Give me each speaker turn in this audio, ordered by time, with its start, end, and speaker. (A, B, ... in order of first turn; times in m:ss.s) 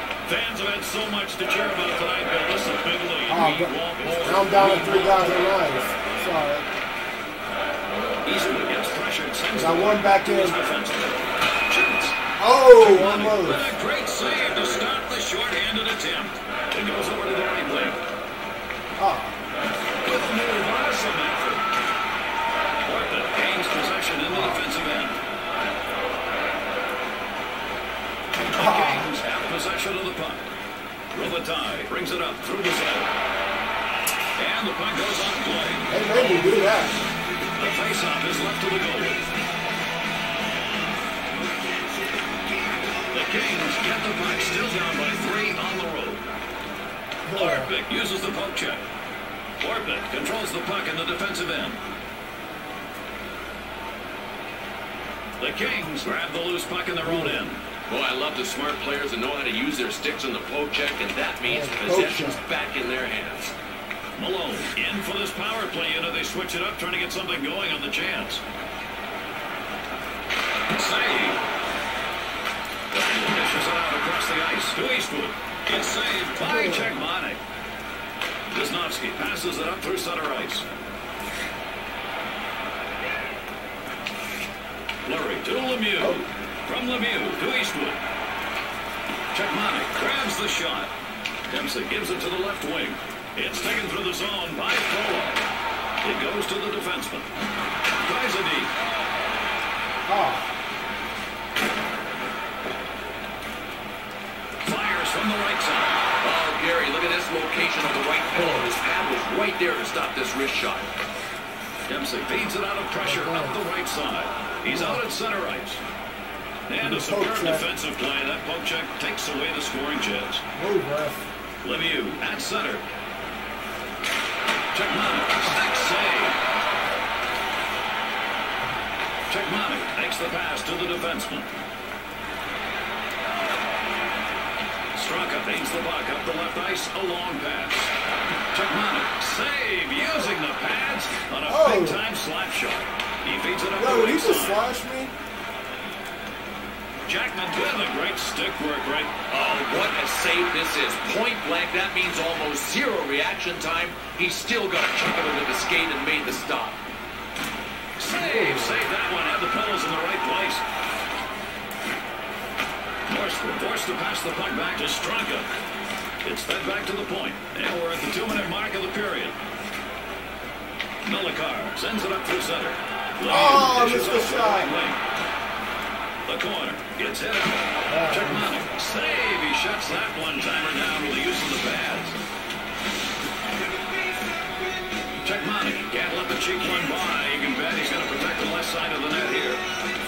0:00.3-0:05.5 A
0:03.3-0:06.7 B
0:04.4-0:05.1 C
0:08.2-0:12.2 A
0:09.6-0:10.6 B
0:12.4-0:13.7 B
0:12.7-0:18.0 A
0:19.0-0:19.4 B
0:20.0-0:21.7 A
0:22.8-0:25.2 A
0:24.3-0:24.6 B
0:28.5-0:30.5 A
0:28.6-0:29.1 B
0:31.1-0:33.1 A
0:34.4-0:36.6 A
0:35.9-0:37.0 B
0:37.6-0:39.2 A
0:43.1-0:46.2 A
0:47.3-0:47.7 B
0:47.4-0:48.8 A
0:49.6-0:51.8 A
0:55.4-0:57.6 A
0:57.0-0:57.4 B
0:57.9-1:03.5 C
1:01.4-1:02.4 B
1:04.2-1:08.4 A
1:10.7-1:11.4 A
1:12.9-1:17.4 A
1:16.4-1:16.9 B
1:18.5-1:20.6 A
1:25.0-1:28.0 A
1:29.3-1:30.9 A
1:31.5-1:35.4 A
1:36.0-1:37.3 A
1:38.0-1:38.7 A
1:40.1-1:40.5 B
1:44.6-1:46.1 A
1:46.2-1:50.9 C
1:48.3-1:48.8 B
1:51.9-1:55.8 A
1:53.0-1:53.6 B
1:54.7-1:55.0 B
1:56.7-2:00.4 A
1:56.8-1:57.7 B
2:00.6-2:01.3 B
2:01.6-2:02.8 A
2:04.7-2:06.4 A
2:09.3-2:11.5 A
2:15.0-2:17.9 A
2:18.5-2:24.6 A
2:21.5-2:22.0 B
2:23.8-2:25.1 B
2:27.1-2:29.1 A
2:29.3-2:36.8 C
2:38.0-2:40.6 A
2:38.2-2:38.8 B
2:43.1-2:45.5 A
2:46.2-2:49.4 A
2:51.0-2:55.0 A
2:53.3-2:54.7 B
2:56.3-3:02.2 A
2:57.9-2:58.5 B
3:05.2-3:09.6 A